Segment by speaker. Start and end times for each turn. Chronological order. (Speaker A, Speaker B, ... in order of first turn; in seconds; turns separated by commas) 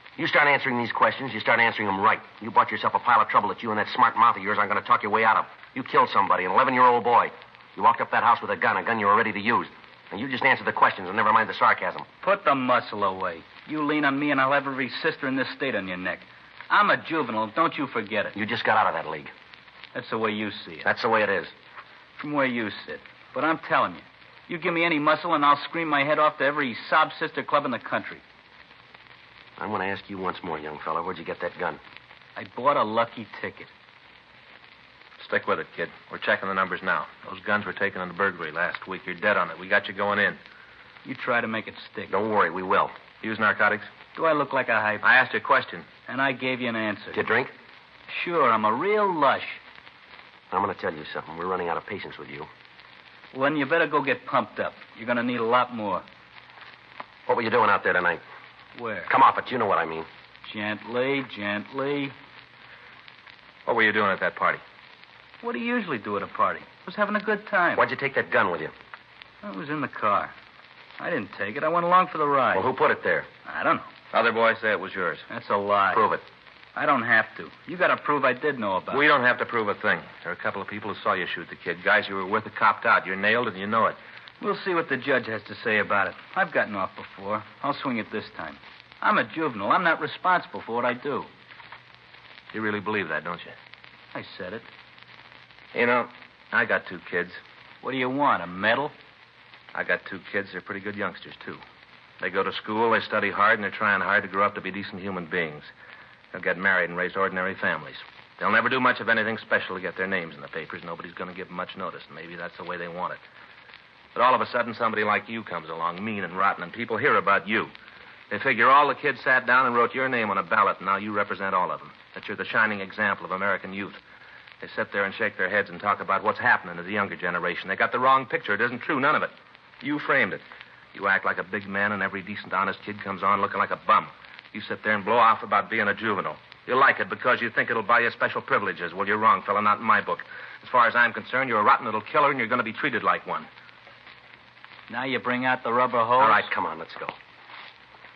Speaker A: 0.2-12.1, Speaker B: 12.2-18.4, Speaker A: 18.3-19.3, Speaker B: 19.9-20.9, Speaker A: 20.8-21.5, Speaker B: 22.2-28.2, Speaker A: 29.6-31.8, Speaker B: 32.4-33.7, Speaker C: 35.2-40.4, Speaker B: 41.0-42.1, Speaker A: 42.1-42.9, Speaker C: 43.2-43.9, Speaker B: 44.1-45.0, Speaker C: 45.0-45.9, Speaker B: 46.1-47.2, Speaker A: 47.1-47.5, Speaker B: 48.1-49.6, Speaker A: 50.5-52.5, Speaker B: 53.3-56.0, Speaker A: 57.3-58.2, Speaker B: 58.7-59.1, Speaker A: 59.1-60.1, Speaker B: 60.4-62.1, Speaker C: 63.6-64.6, Speaker B: 65.4-67.8, Speaker A: 67.7-68.7, Speaker B: 69.4-70.3, Speaker B: 71.0-72.7, Speaker A: 72.5-73.3, Speaker B: 73.5-73.9, Speaker C: 74.1-75.2, Speaker B: 75.3-76.1, Speaker A: 75.9-76.2, Speaker B: 76.7-79.0, Speaker C: 78.9-84.0, Speaker B: 84.4-91.3, Speaker C: 92.5-93.5, Speaker B: 94.1-94.7, Speaker C: 95.7-97.4, Speaker B: 97.8-98.9, Speaker C: 99.7-101.6, Speaker C: 102.2-105.7, Speaker C: 106.3-113.2, Speaker C: 114.1-117.7, Speaker C: 118.3-124.0, Speaker C: 124.6-130.4, Speaker C: 130.9-143.5, Speaker B: 144.9-146.5, Speaker A: 146.2-147.2